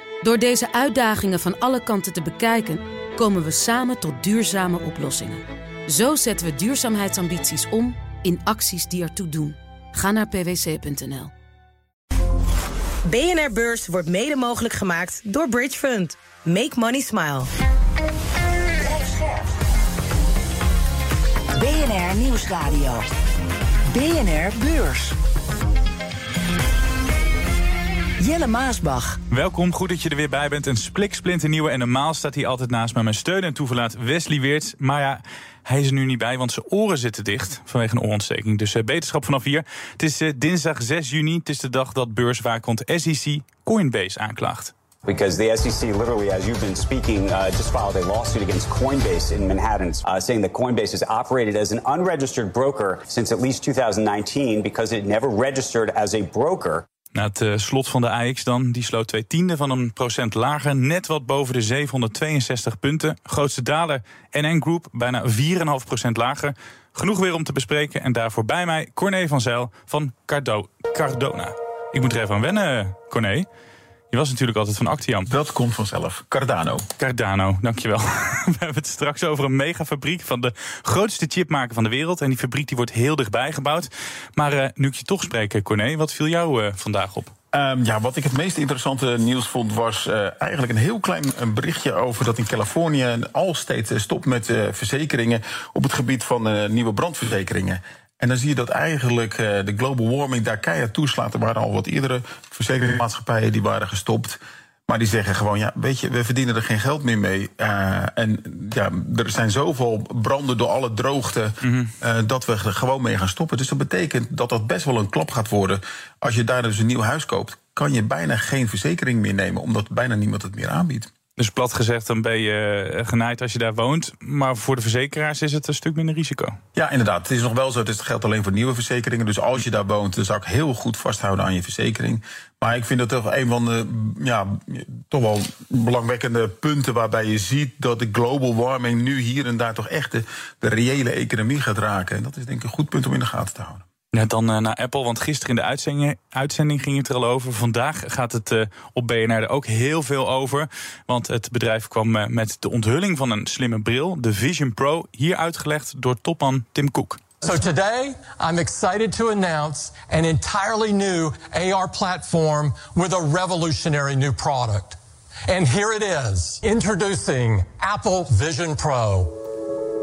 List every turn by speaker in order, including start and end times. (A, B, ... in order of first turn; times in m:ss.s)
0:00.2-0:11.3 A
0:13.1-0:17.5 B
0:21.6-0:23.1 C
0:23.9-0:25.2 C
0:28.2-0:29.2 C
0:29.3-0:44.7 D
0:45.0-0:56.8 E
0:57.1-1:13.5 D
1:14.1-1:15.3 D
1:15.2-1:16.8 F
1:17.0-1:27.3 D
1:27.5-2:01.1 F
1:51.6-1:51.9 D
2:01.4-2:06.5 D
2:06.7-2:23.8 F
2:24.1-2:37.2 D
2:37.4-2:49.3 G